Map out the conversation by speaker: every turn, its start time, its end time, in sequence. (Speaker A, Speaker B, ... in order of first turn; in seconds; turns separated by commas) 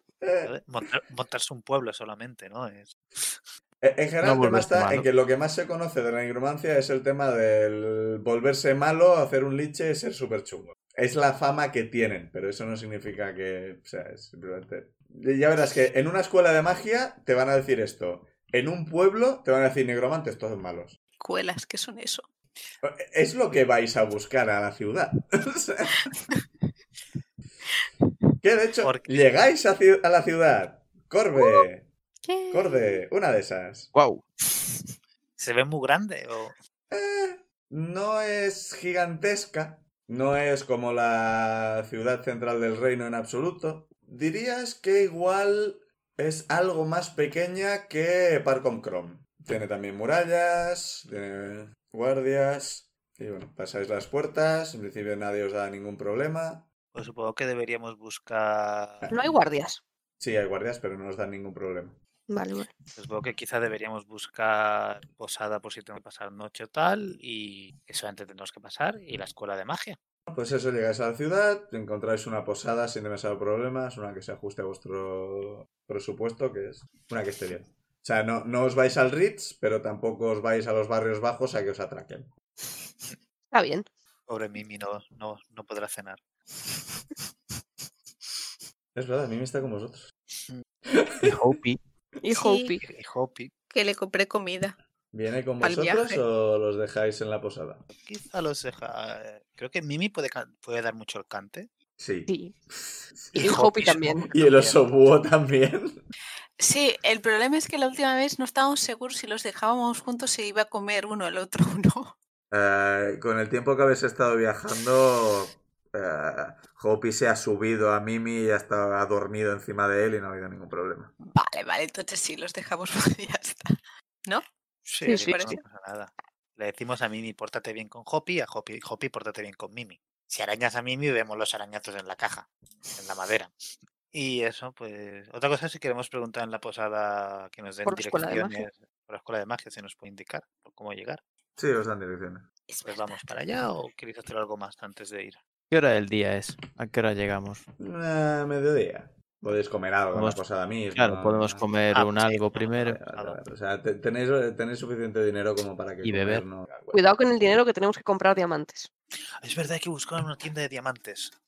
Speaker A: 0.2-0.5, Speaker B: 0.4-3.4, Speaker A: 3.8-21.0, Speaker C: 4.2-5.1, Speaker D: 21.2-22.2, Speaker A: 22.8-26.1, Speaker A: 28.4-31.9, Speaker B: 28.8-29.1, Speaker E: 32.2-33.0, Speaker A: 32.5-33.9, Speaker C: 33.9-34.2, Speaker B: 35.4-36.5, Speaker A: 36.9-56.7, Speaker B: 56.9-59.1, Speaker E: 59.1-59.8, Speaker A: 60.2-62.0, Speaker E: 62.3-62.7, Speaker B: 63.0-70.0, Speaker A: 70.3-82.3, Speaker E: 83.5-83.9, Speaker B: 84.3-86.2, Speaker A: 88.9-90.1, Speaker A: 90.9-91.3, Speaker C: 91.2-91.8, Speaker E: 92.2-92.8, Speaker D: 92.3-92.8, Speaker B: 92.8-93.5, Speaker D: 93.7-94.8, Speaker A: 95.1-97.8, Speaker D: 95.6-96.2, Speaker B: 97.9-101.7, Speaker A: 102.0-103.6, Speaker E: 102.3-102.5, Speaker B: 103.3-104.9, Speaker E: 103.4-104.3, Speaker A: 104.3-106.0, Speaker D: 106.6-112.1, Speaker A: 112.5-121.1, Speaker D: 121.2-124.4, Speaker B: 124.8-133.5, Speaker E: 125.0-125.5, Speaker D: 125.1-125.6, Speaker B: 134.1-141.2, Speaker E: 137.8-138.7, Speaker A: 141.6-142.4, Speaker D: 142.7-143.2, Speaker B: 142.8-145.4, Speaker C: 145.7-147.6, Speaker A: 147.8-151.7, Speaker C: 150.1-150.4, Speaker C: 150.9-153.0, Speaker B: 151.9-153.4, Speaker A: 152.8-157.1, Speaker C: 156.0-156.4, Speaker E: 156.9-158.9, Speaker B: 159.4-161.3